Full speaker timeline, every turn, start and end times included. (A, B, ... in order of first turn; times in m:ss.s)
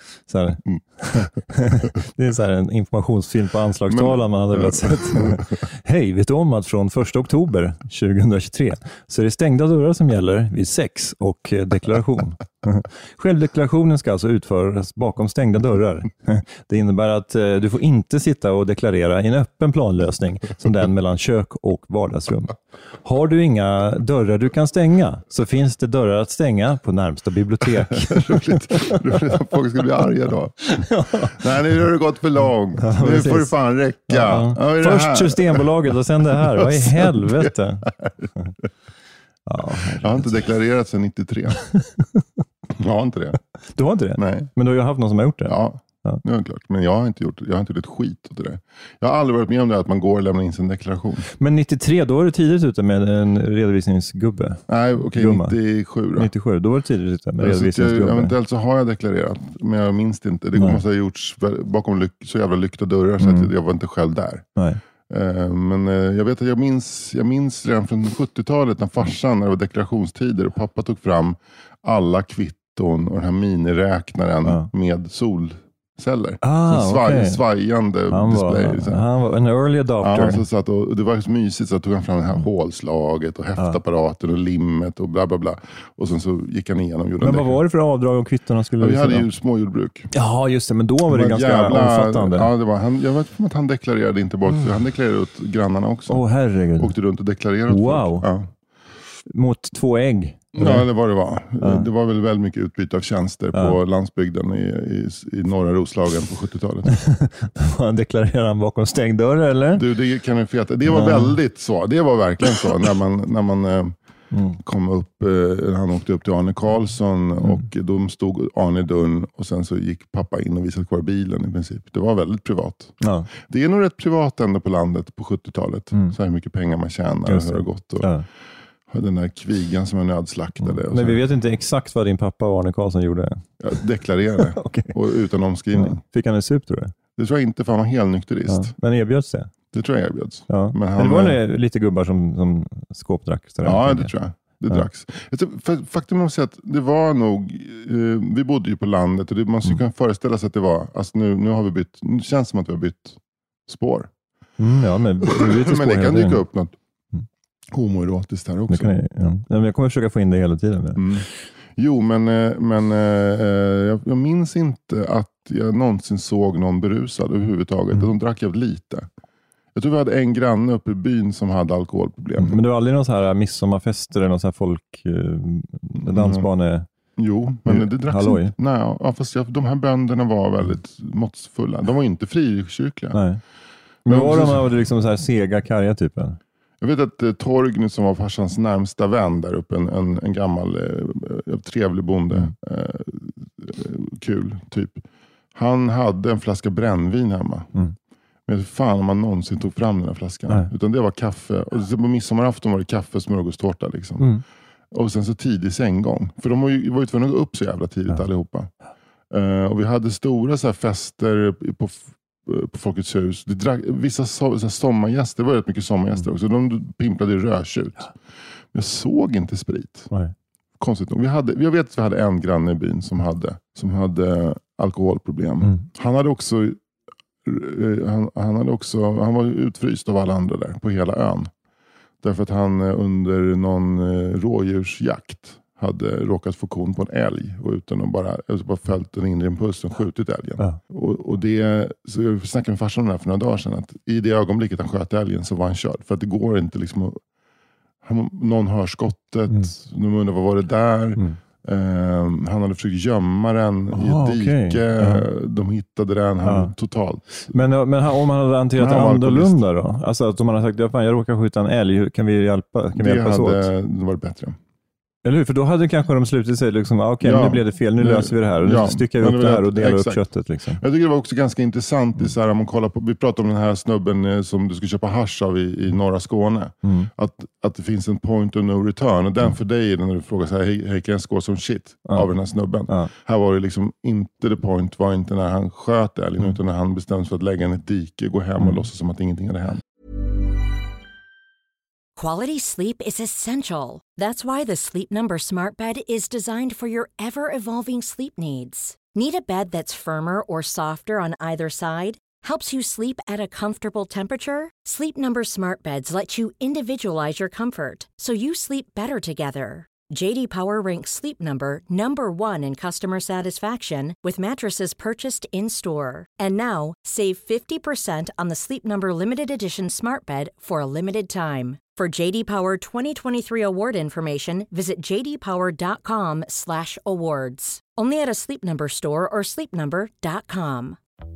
0:00.3-0:29.0 A
0:03.9-0:05.4 B
0:27.9-0:35.7 B
0:30.6-0:31.5 A
0:32.8-0:33.5 A
0:34.1-0:38.5 A
0:36.4-0:38.3 B
0:39.5-0:40.4 A
0:40.0-0:41.6 B
0:41.7-0:42.0 A
0:42.7-0:43.4 B
0:43.7-0:46.2 A
0:44.2-0:44.5 B
0:45.5-0:51.2 B
0:51.4-0:55.6 A
0:54.7-0:56.3 B
0:56.1-0:58.3 A
0:57.4-1:04.4 B
1:00.6-1:00.8 A
1:03.2-1:03.5 A
1:04.6-1:04.8 A
1:05.1-1:19.0 B
1:16.4-1:17.4 A
1:18.1-1:20.4 A
1:20.0-1:27.6 B
1:27.2-1:29.2 A
1:28.8-1:30.1 B
1:30.1-1:32.5 A
1:31.1-1:36.2 B
1:36.1-1:36.9 A
1:36.8-1:38.5 B
1:37.7-1:38.3 A
1:39.3-1:40.9 A
1:40.6-1:46.9 B
1:41.6-1:41.9 A
1:46.9-1:49.9 A
1:49.7-1:53.9 B
1:50.9-1:51.4 A
1:54.3-1:54.6 A
1:54.6-2:08.1 B
2:03.0-2:03.3 A
2:07.2-2:08.2 A
2:08.9-2:11.2 B
2:10.8-2:13.4 A
2:13.6-2:16.0 B
2:14.5-2:15.0 A
2:15.7-2:16.9 A
2:17.2-2:18.7 B
2:18.5-2:19.5 A
2:19.7-2:21.4 B
2:20.5-2:24.1 A
2:23.6-2:34.1 B
2:34.6-2:36.4 A
2:35.2-2:36.8 B
2:37.7-2:39.0 B
2:38.7-2:41.2 A
2:41.0-2:49.1 B
2:49.7-2:52.6 B
2:52.4-2:56.8 A
2:56.1-2:56.4 B
2:57.2-3:03.2 B
2:57.7-2:58.5 A
3:03.1-3:03.4 A
3:04.0-3:06.4 A
3:04.0-3:04.7 B
3:06.8-3:15.0 B
3:15.5-3:17.7 B
3:18.5-3:24.3 B
3:24.9-3:28.7 B
3:29.3-3:38.1 B
3:38.7-3:40.1 B
3:40.8-3:46.8 B
3:47.4-3:51.5 B
3:52.2-4:07.2 B
4:08.0-4:17.5 B
4:13.9-4:15.2 A
4:16.4-4:16.7 A
4:17.5-4:23.7 A
4:18.8-4:19.6 B
4:22.9-4:24.6 B
4:25.2-4:30.8 A
4:27.2-4:30.2 B
4:30.8-4:49.8 B
4:36.8-4:37.1 A
4:52.2-5:31.0 C